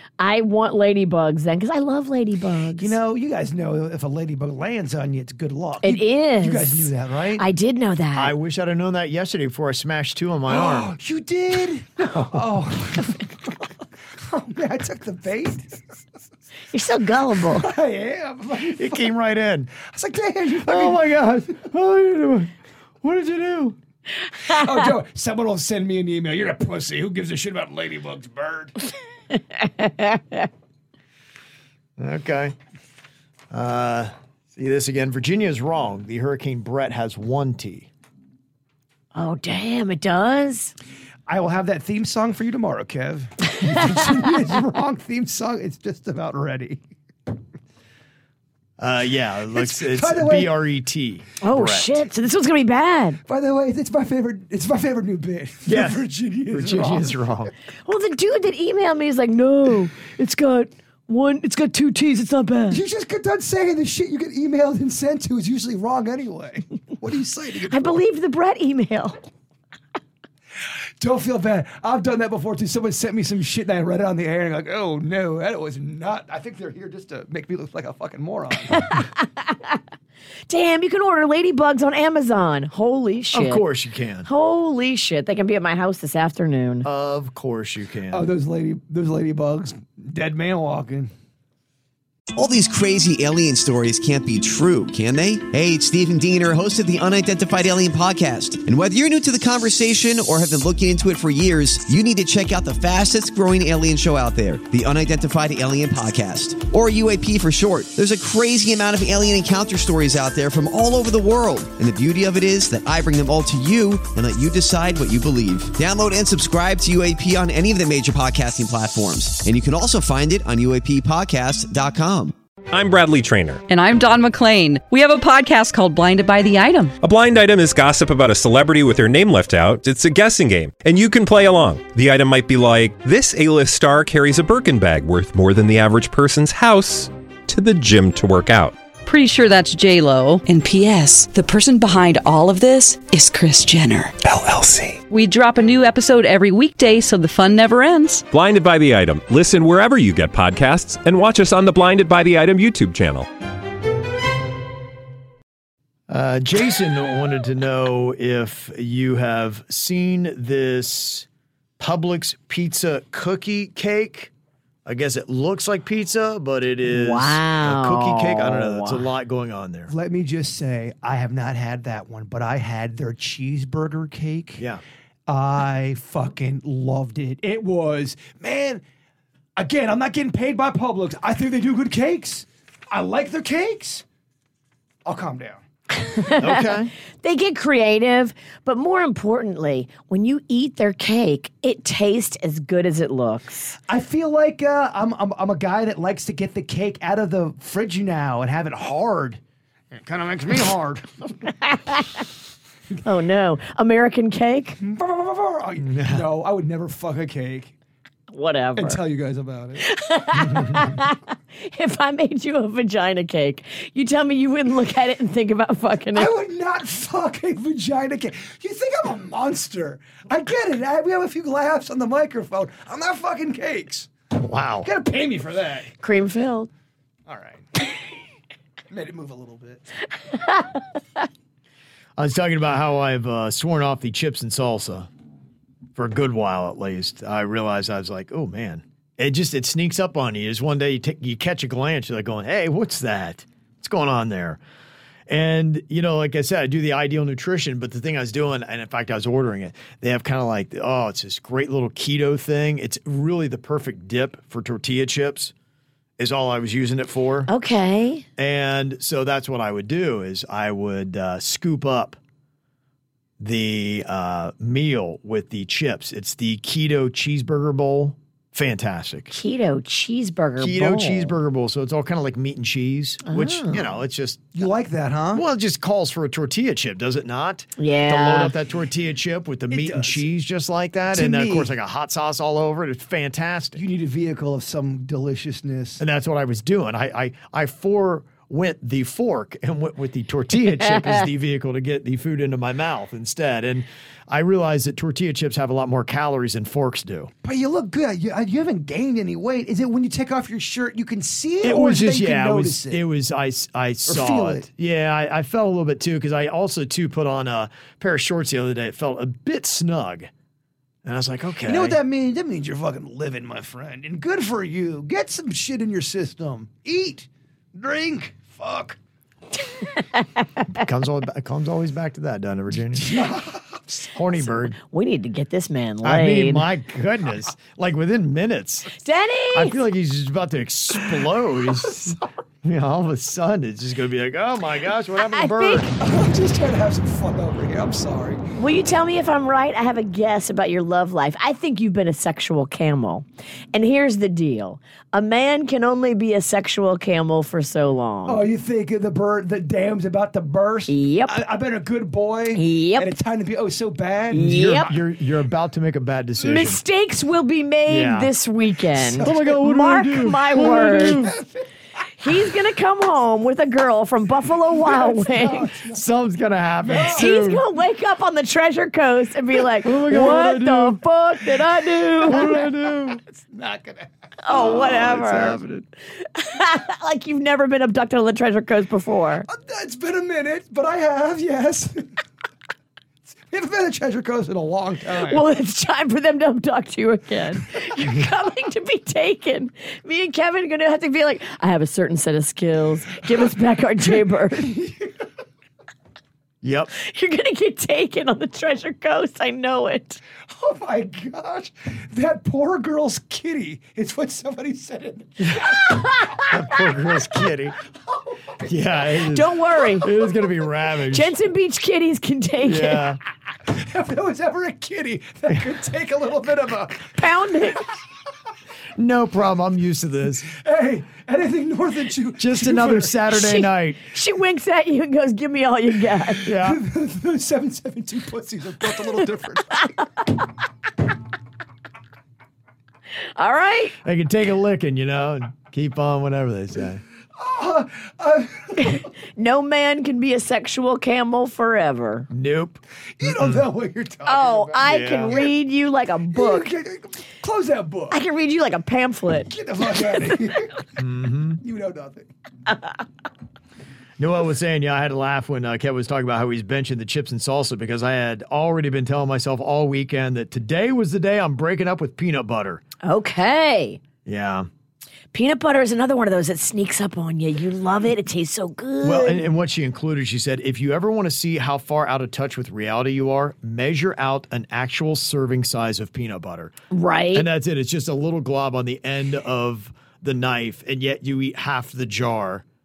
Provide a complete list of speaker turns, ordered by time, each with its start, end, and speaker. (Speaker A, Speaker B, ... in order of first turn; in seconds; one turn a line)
Speaker A: 0.2-3.0
Speaker B: 2.8-7.5
Speaker A: 5.8-8.3
Speaker C: 8.1-10.9
Speaker B: 10.5-13.5
Speaker C: 12.1-12.4
Speaker B: 14.2-15.8
Speaker A: 16.7-17.7
Speaker B: 17.5-19.1
Speaker C: 18.6-19.7
Speaker B: 19.8-21.0
Speaker C: 20.6-23.8
Speaker B: 24.4-28.7
Speaker A: 29.6-30.5
Speaker C: 32.0-32.5
Speaker C: 33.5-37.9
Speaker A: 39.1-40.7
Speaker B: 41.3-46.8
Speaker C: 48.8-52.0
Speaker B: 49.5-50.5
Speaker A: 51.4-53.2
Speaker B: 53.2-57.1
Speaker C: 55.6-57.5
Speaker A: 57.9-62.8
Speaker B: 62.7-68.0
Speaker A: 67.7-69.2
Speaker B: 71.0-79.0
Speaker A: 78.9-79.8
Speaker A: 80.5-83.6
Speaker C: 83.3-84.3
Speaker A: 84.2-86.9
Speaker C: 86.8-88.3
Speaker B: 88.1-91.1
Speaker D: 92.3-122.3
Speaker E: 122.7-123.6
Speaker F: 123.7-127.0
Speaker E: 127.0-138.8
Speaker F: 139.0-140.4
Speaker G: 140.4-144.6
Speaker F: 145.1-148.2
Speaker E: 148.3-153.3
Speaker C: 156.1-161.3
Speaker C: 161.8-164.3
Speaker C: 164.8-169.9
Speaker A: 166.8-169.1
Speaker B: 169.9-174.6
Speaker C: 174.6-174.8
Speaker B: 175.3-178.8
Speaker B: 179.6-184.0
Speaker B: 185.0-185.6
Speaker A: 186.0-193.7
Speaker C: 186.4-186.9
Speaker B: 193.9-199.4
Speaker B: 199.9-201.1
Speaker A: 201.7-202.2
Speaker A: 203.0-204.8
Speaker B: 204.8-207.7
Speaker C: 205.8-206.3
Speaker A: 208.3-209.0
Speaker B: 208.8-209.8
Speaker A: 209.8-216.3
Speaker B: 216.1-224.1
Speaker C: 224.3-224.9
Speaker B: 224.8-225.9
Speaker A: 226.0-226.7
Speaker B: 227.3-227.7
Speaker B: 228.9-229.8
Speaker A: 230.3-230.8
Speaker C: 232.2-235.1
Speaker C: 235.9-244.6
Speaker C: 245.3-255.5
Speaker C: 256.2-257.5
Speaker A: 257.5-258.2
Speaker C: 258.4-262.2
Speaker C: 263.4-269.3
Speaker A: 269.3-271.4
Speaker C: 270.6-274.7
Speaker A: 273.2-273.8
Speaker B: 274.5-275.4
Speaker C: 275.3-283.8
Speaker A: 277.8-278.5
Speaker B: 279.7-280.2
Speaker B: 281.1-281.7
Speaker B: 283.8-286.0
Speaker C: 286.0-297.3
Speaker A: 290.9-291.2
Speaker B: 297.4-303.0
Speaker C: 301.6-310.3
Speaker B: 304.1-304.6
Speaker C: 311.0-312.0
Speaker B: 311.6-319.0
Speaker C: 320.7-323.3
Speaker B: 322.9-323.8
Speaker C: 323.9-324.8
Speaker A: 324.7-326.7
Speaker C: 326.0-328.9
Speaker A: 329.0-329.8
Speaker C: 329.5-335.9
Speaker A: 335.2-335.9
Speaker B: 335.9-338.4
Speaker A: 338.6-348.4
Speaker B: 348.2-354.6
Speaker A: 350.9-351.4
Speaker A: 352.5-353.1
Speaker A: 354.3-354.9
Speaker C: 354.3-356.8
Speaker A: 356.4-361.3
Speaker C: 357.9-358.3
Speaker B: 359.0-359.6
Speaker C: 359.2-361.4
Speaker B: 360.6-361.6
Speaker A: 362.2-365.7
Speaker B: 364.8-366.0
Speaker C: 365.9-367.6
Speaker B: 366.8-367.3
Speaker A: 367.1-372.6
Speaker C: 369.8-371.0
Speaker C: 372.2-373.2
Speaker B: 372.2-374.1
Speaker A: 374.4-375.6
Speaker C: 374.5-375.8
Speaker A: 376.2-379.5
Speaker B: 379.5-382.1
Speaker B: 383.4-385.4
Speaker A: 385.2-394.8
Speaker B: 394.6-395.1
Speaker C: 396.6-396.9
Speaker A: 396.9-400.2
Speaker B: 400.5-405.9
Speaker A: 405.9-406.5
Speaker C: 406.4-407.8
Speaker B: 408.1-408.4
Speaker C: 408.6-411.3
Speaker A: 409.2-410.1
Speaker A: 411.1-413.0
Speaker C: 412.6-413.2
Speaker B: 413.6-417.1
Speaker A: 417.1-417.9
Speaker C: 419.0-420.5
Speaker B: 420.5-423.2
Speaker C: 422.4-424.0
Speaker A: 423.3-426.5
Speaker C: 426.4-426.8
Speaker B: 426.4-429.9
Speaker A: 433.4-434.0
Speaker C: 434.0-437.0
Speaker B: 437.4-439.0
Speaker A: 438.8-442.3
Speaker C: 442.3-443.7
Speaker B: 443.2-445.5
Speaker A: 444.2-446.7
Speaker C: 444.8-445.4
Speaker B: 446.3-448.2
Speaker A: 448.1-449.9
Speaker B: 449.4-450.9
Speaker C: 451.0-451.6
Speaker B: 451.6-452.3
Speaker C: 454.2-462.8
Speaker A: 463.0-464.0
Speaker C: 464.2-464.7
Speaker A: 465.3-469.5
Speaker C: 469.0-476.8
Speaker A: 476.9-477.5
Speaker C: 477.3-482.6